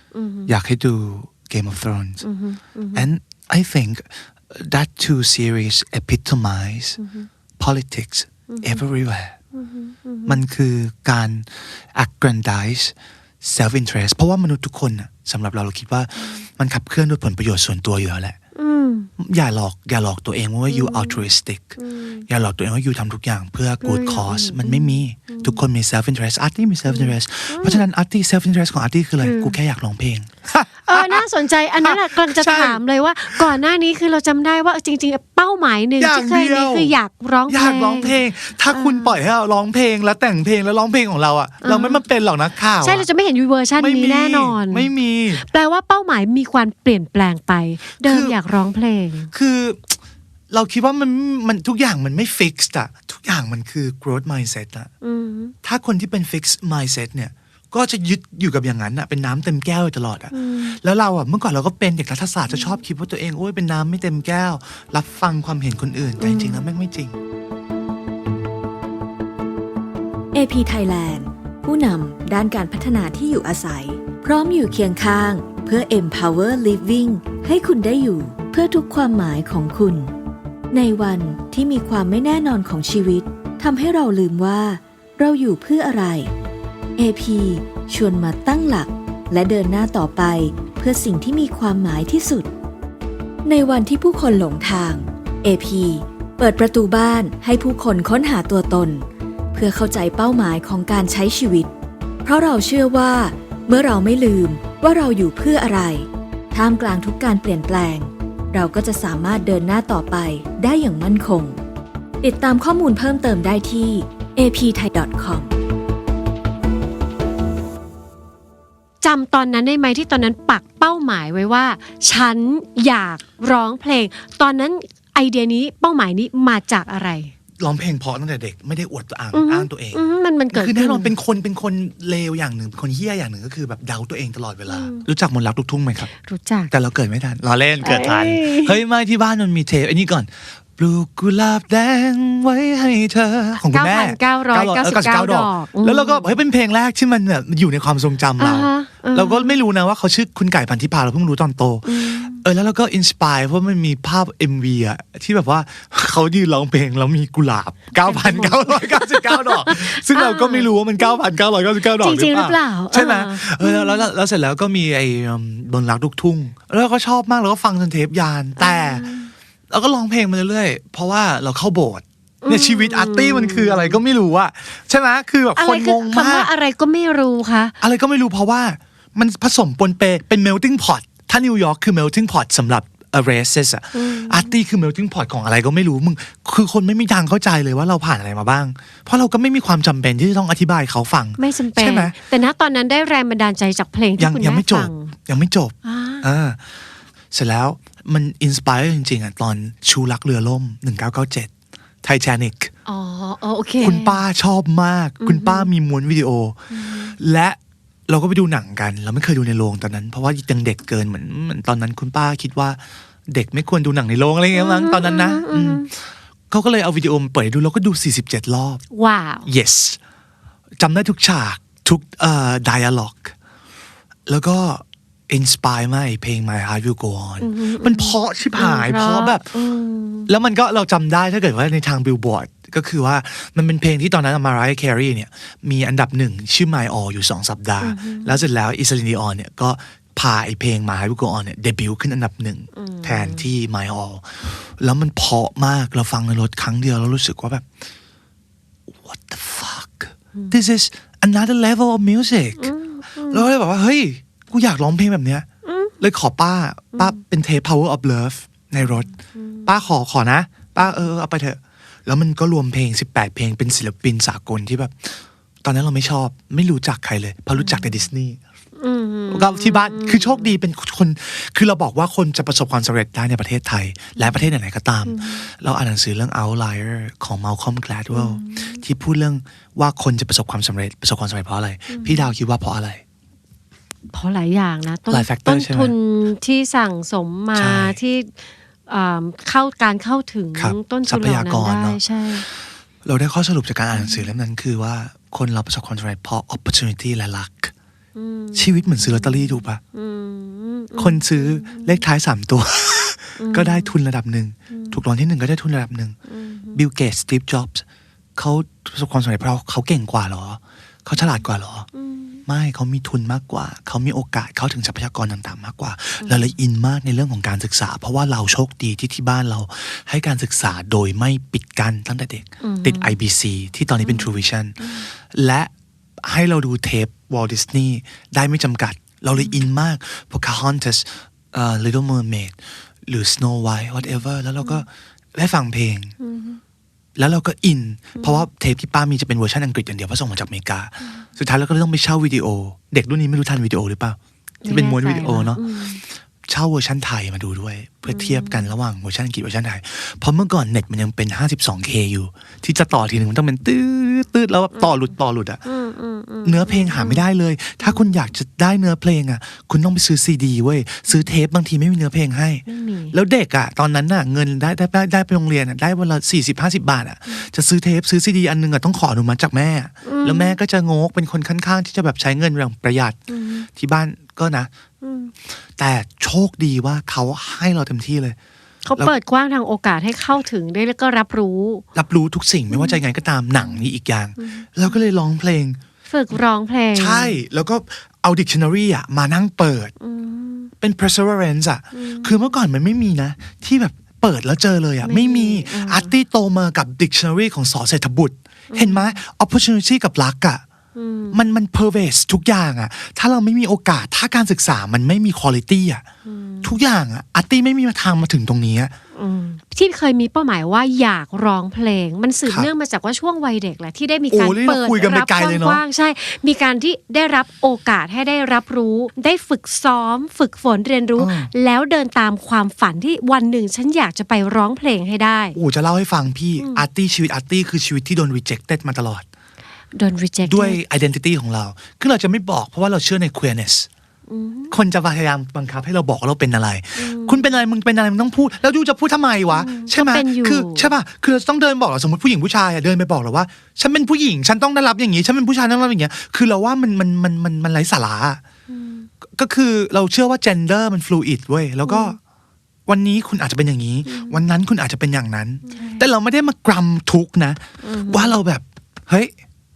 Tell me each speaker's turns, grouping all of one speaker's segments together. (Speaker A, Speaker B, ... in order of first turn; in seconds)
Speaker A: 0.1-0.5, 2.2-3.1, 7.0-7.3, 8.5-8.8, 9.5-10.4, 18.6-19.1, 20.7-21.2, 21.8-22.2, 23.8-25.6, 26.9-27.8, 29.2-29.6, 30.9-38.2, 38.7-39.2, 41.6-42.0, 42.8-49.3, 55.0-55.5, 60.3-60.8, 66.2-66.6, 119.0-127.3, 129.3-131.1, 134.7-135.1, 136.1-136.7, 137.8-138.8, 143.6-146.3, 148.4-149.6, 151.8-152.4, 158.0-161.2, 161.9-164.1, 168.6-169.3, 172.4-174.0, 175.6-177.8, 183.9-184.5, 191.4-195.1, 195.8-196.2, 202.8-204.2, 205.2-205.7, 206.7-207.2, 214.5-215.9, 218.9-219.5, 227.4-230.3, 237.8-238.4, 242.7-243.4, 252.6-253.4, 255.6-255.9, 259.3-259.7, 267.6-267.9, 268.8-270.5, 275.1-275.5, 278.1-278.8, 281.9-282.3, 284.1-292.5, 293.9-294.3, 298.1-302.0, 303.4-303.9, 304.7-305.0, 306.3-306.8, 311.9-312.4, 316.2-316.5, 322.6-323.1, 324.0-325.1, 329.4-329.6, 336.2-336.6, 338.1-338.4, 344.6-346.0, 348.1-348.7, 355.6-357.2, 362.6-363.1, 370.0-370.6, 373.3-373.7, 375.0-375.3, 378.8-381.8, 382.7-383.0, 384.4-384.9, 386.1-387.4, 390.0-390.7, 391.9-392.3, 395.0-396.1, 398.7-399.2, 400.9-401.4, 406.2-406.8, 409.1-425.6, 426.6-426.8, 429.9-430.8, 434.3-434.7, 436.9-437.5, 439.5-440.9, 448.7-449.1, 451.8-452.1, 454.1-454.4, 455.7-456.1, 457.8-458.4
Speaker B: 0.5-2.2, 2.9-7.0, 7.6-9.4, 10.2-18.4, 19.2-21.8, 22.3-31.2, 31.8-33.6, 36.0-37.0, 37.5-43.0, 43.8-45.4, 48.0-48.4, 49.3-50.0, 50.5-54.9, 55.6-67.2, 127.6-136.1, 136.7-169.1, 169.7-176.5, 177.8-192.2, 194.2-201.5, 202.0-202.7, 203.8-218.8, 219.4-220.0, 220.8-223.3, 224.3-229.5, 230.3-247.7, 248.9-255.4, 256.0-259.1, 259.6-268.4, 269.3-283.0, 285.1-285.9, 287.5-288.0, 290.6-297.7, 298.5-299.8, 301.0-306.2, 306.7-307.8, 308.4-311.9, 312.4-325.7, 326.2-336.1, 337.1-355.6, 356.4-373.2, 373.7-374.7, 375.5-378.4, 381.9-385.8, 386.9-389.9, 390.8-400.6, 401.3-406.1, 406.6-408.9, 414.3-415.8, 421.2-421.5, 425.5-429.2, 430.4-433.9, 434.7-448.4, 449.2-452.2, 452.9-459.3
Speaker C: 70.3-80.1, 80.7-86.3, 87.0-92.5, 93.4-101.7, 102.2-111.6, 112.2-115.5